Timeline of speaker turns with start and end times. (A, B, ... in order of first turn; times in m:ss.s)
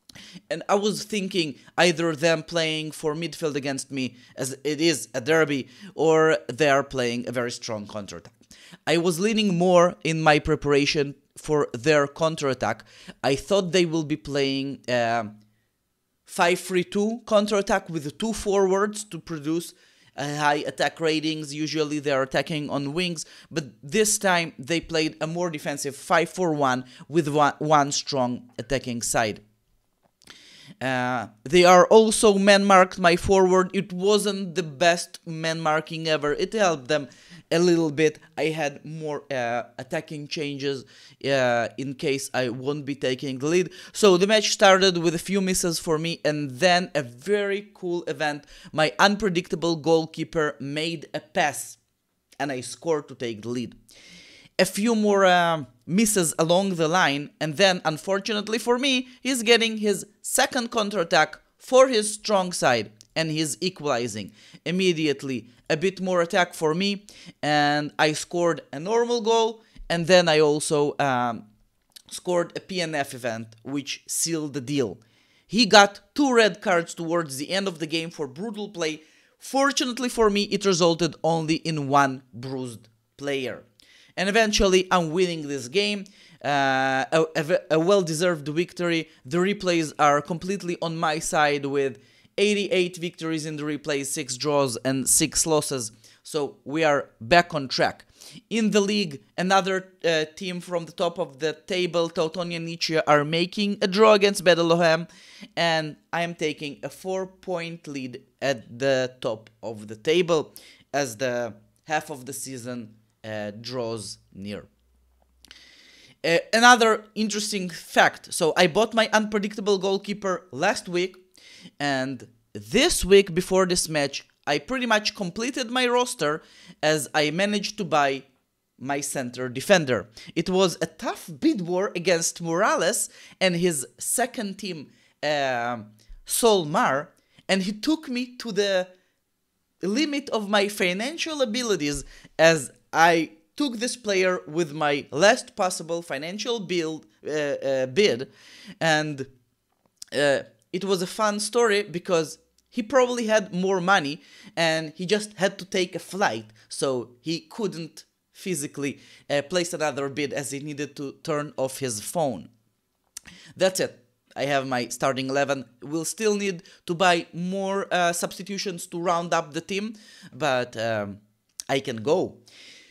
0:00.5-0:08.3 A
0:08.8-0:15.4 A
0:16.2-0:29.4 A
0:30.8-0:51.8 A
0:52.4-0:53.8 A
0:54.6-1:11.5 A
1:12.1-1:54.7 A
1:56.2-2:01.2 A
2:01.8-2:08.2 A
2:08.8-2:18.9 A
2:19.8-2:29.3 A
2:30.1-2:42.5 A
2:43.6-2:52.4 A